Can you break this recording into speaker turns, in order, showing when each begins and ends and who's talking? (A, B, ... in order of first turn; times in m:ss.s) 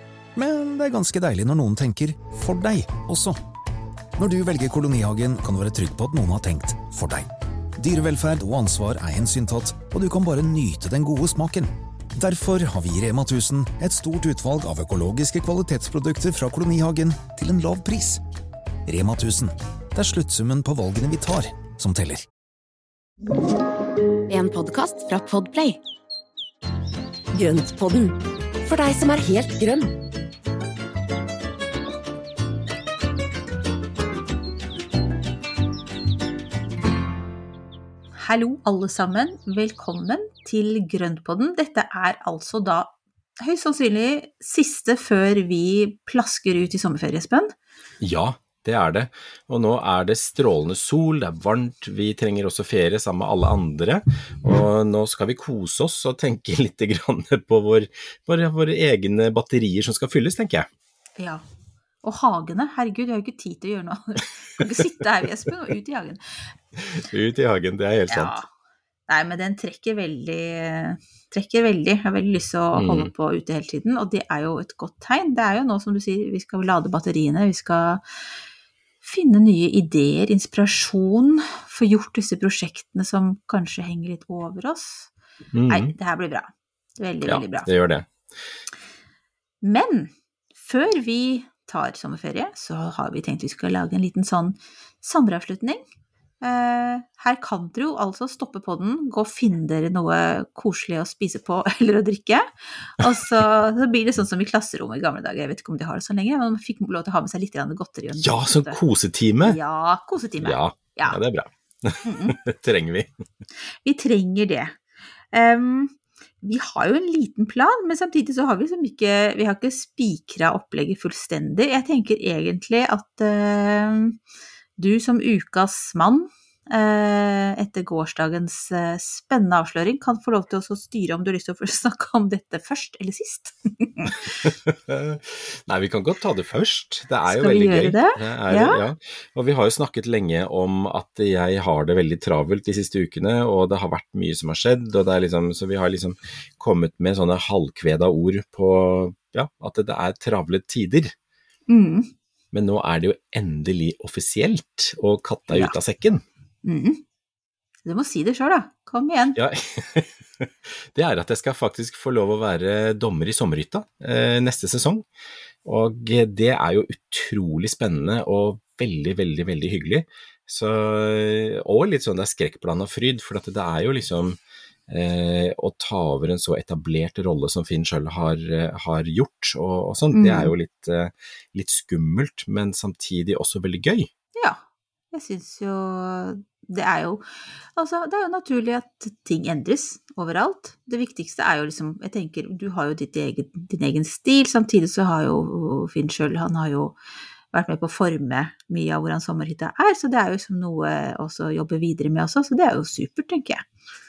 0:00.4-0:03.4 A
0:04.2-0:18.2 A
0:18.9-0:22.3 A
0:24.3-0:25.8 B
0:27.3-0:29.9 B
0:38.2-0:47.5 C
0:48.0-1:00.7 D
1:01.2-1:01.4 C
1:02.0-1:06.2 C
1:06.8-1:08.4 D
1:08.1-1:08.5 C
1:09.1-1:18.0 C
1:12.7-1:13.1 D
1:19.0-1:25.1 C
1:25.5-1:26.0 D
1:25.7-1:27.7 C
1:27.2-1:28.1 D
1:29.6-1:35.8 C
1:36.4-1:48.8 C
1:48.2-1:49.6 D
1:49.4-1:51.2 C
1:50.4-1:53.1 D
1:52.0-1:52.4 C
1:53.8-1:54.8 C
1:55.3-2:04.2 C
2:04.8-2:14.2 C
2:14.1-2:31.1 D
2:17.3-2:18.8 C
2:31.7-2:32.1 C
2:32.5-2:36.2 D
2:36.6-2:37.0 C
2:37.8-2:39.4 C
2:39.4-2:45.1 D
2:45.6-3:04.1 D
3:00.1-3:00.5 C
3:05.1-3:07.2 C
3:07.8-3:17.0 C
3:17.5-3:23.7 C